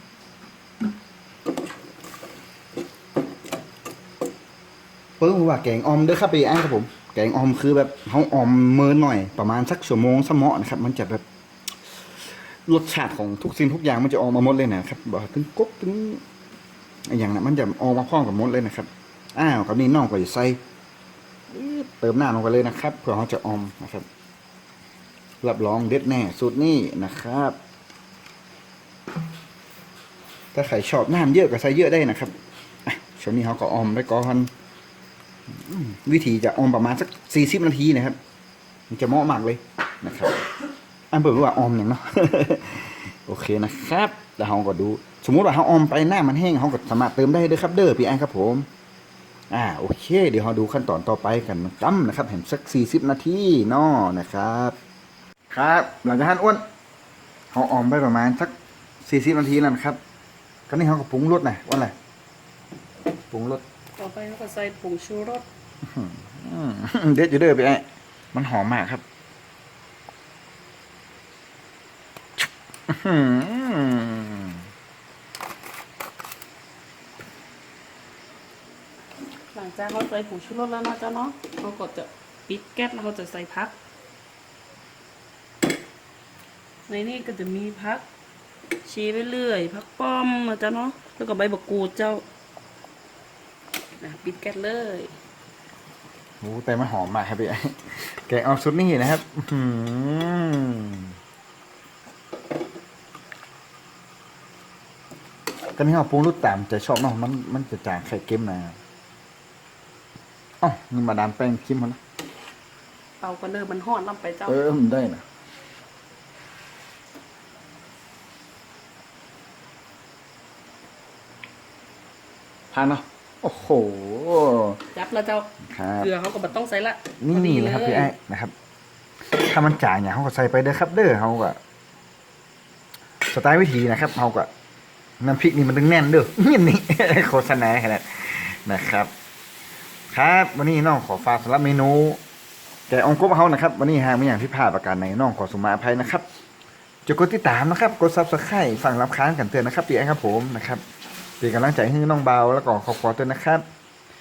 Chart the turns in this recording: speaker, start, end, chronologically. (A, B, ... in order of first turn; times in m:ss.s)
0:05.2-0:11.2 A
0:12.7-0:16.2 A
0:17.1-0:20.6 A
0:21.5-0:24.1 A
0:25.4-0:27.6 A
0:30.5-0:32.4 A
0:32.9-0:34.5 A
0:35.5-0:38.2 A
0:38.9-0:40.5 A
0:41.1-0:48.7 A
0:49.5-0:54.8 A
0:55.5-0:56.6 A
0:57.5-1:00.0 A
1:00.7-1:01.9 A
1:03.3-1:03.6 A
1:04.0-1:05.5 B
1:05.8-1:09.0 A
1:12.9-1:14.6 A
1:19.5-1:23.8 B
1:26.9-1:28.1 B
1:28.8-1:32.2 B
1:34.0-1:35.2 B
1:36.4-1:41.1 A
1:45.8-1:48.8 A
1:50.6-1:52.0 A
1:53.2-1:54.6 B
1:54.5-1:55.2 A
2:02.7-2:04.8 A
2:04.9-2:08.1 B
2:05.6-2:06.1 A
2:07.2-2:08.5 A
2:09.3-2:11.6 A
2:13.3-2:14.5 A
2:15.2-2:19.1 A
2:20.1-2:22.2 A
2:22.9-2:26.2 A
2:27.1-2:30.8 A
2:31.4-2:33.6 A